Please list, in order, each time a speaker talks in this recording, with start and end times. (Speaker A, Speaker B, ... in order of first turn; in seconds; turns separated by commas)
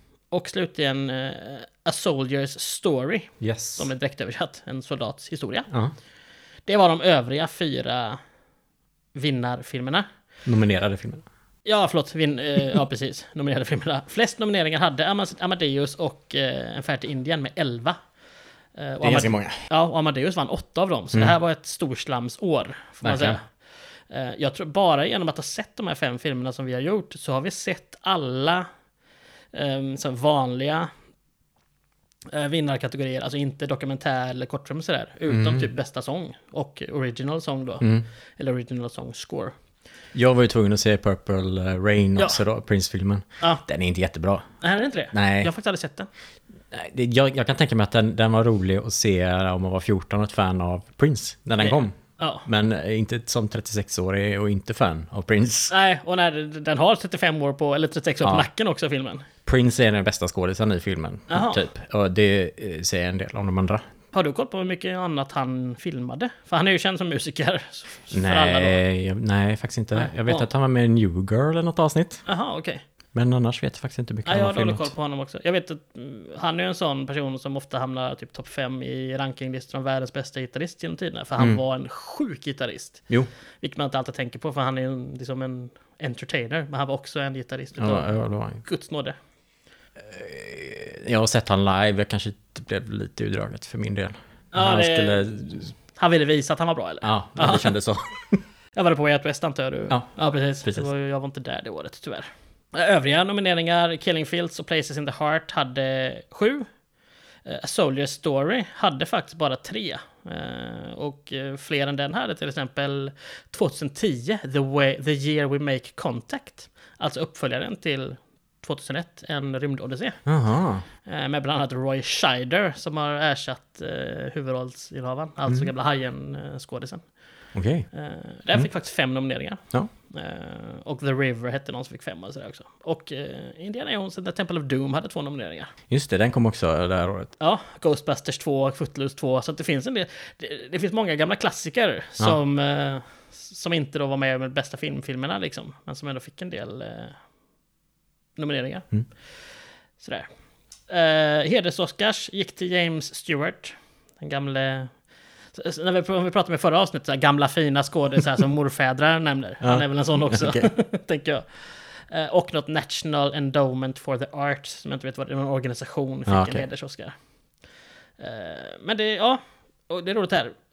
Speaker A: 0.3-5.7, Speaker B: 3.4-3.9, Speaker A: 6.7-8.2, Speaker A: 9.1-10.1, Speaker B: 10.4-11.2, Speaker A: 11.6-18.0, Speaker A: 18.8-23.4, Speaker B: 19.0-19.6, Speaker B: 23.0-23.4, Speaker A: 24.1-28.7, Speaker A: 29.5-30.9, Speaker A: 32.3-39.5, Speaker B: 35.3-35.7, Speaker B: 37.8-38.0, Speaker B: 40.1-44.4, Speaker A: 44.6-46.1, Speaker B: 45.1-45.5, Speaker B: 46.7-55.7, Speaker A: 51.6-52.5, Speaker A: 55.7-59.3, Speaker B: 58.2-58.5, Speaker B: 59.4-63.8, Speaker A: 61.3-61.6, Speaker A: 64.1-68.8, Speaker B: 68.1-72.2, Speaker A: 69.9-70.5, Speaker A: 72.2-72.8, Speaker B: 73.1-74.9, Speaker A: 74.2-83.0, Speaker A: 83.6-89.2, Speaker B: 87.8-88.6, Speaker B: 90.0-95.7, Speaker A: 94.5-95.4, Speaker A: 95.9-97.7, Speaker B: 97.0-98.4, Speaker A: 98.7-106.7, Speaker A: 107.4-120.2, Speaker B: 120.2-120.8, Speaker A: 121.0-127.0, Speaker B: 127.5-127.9, Speaker A: 127.9-135.7, Speaker B: 135.9-137.3, Speaker A: 137.4-147.2, Speaker A: 148.3-148.9, Speaker A: 150.0-150.3, Speaker A: 150.9-154.9, Speaker A: 155.5-167.1, Speaker B: 159.6-160.7, Speaker B: 166.3-166.6, Speaker A: 168.2-170.6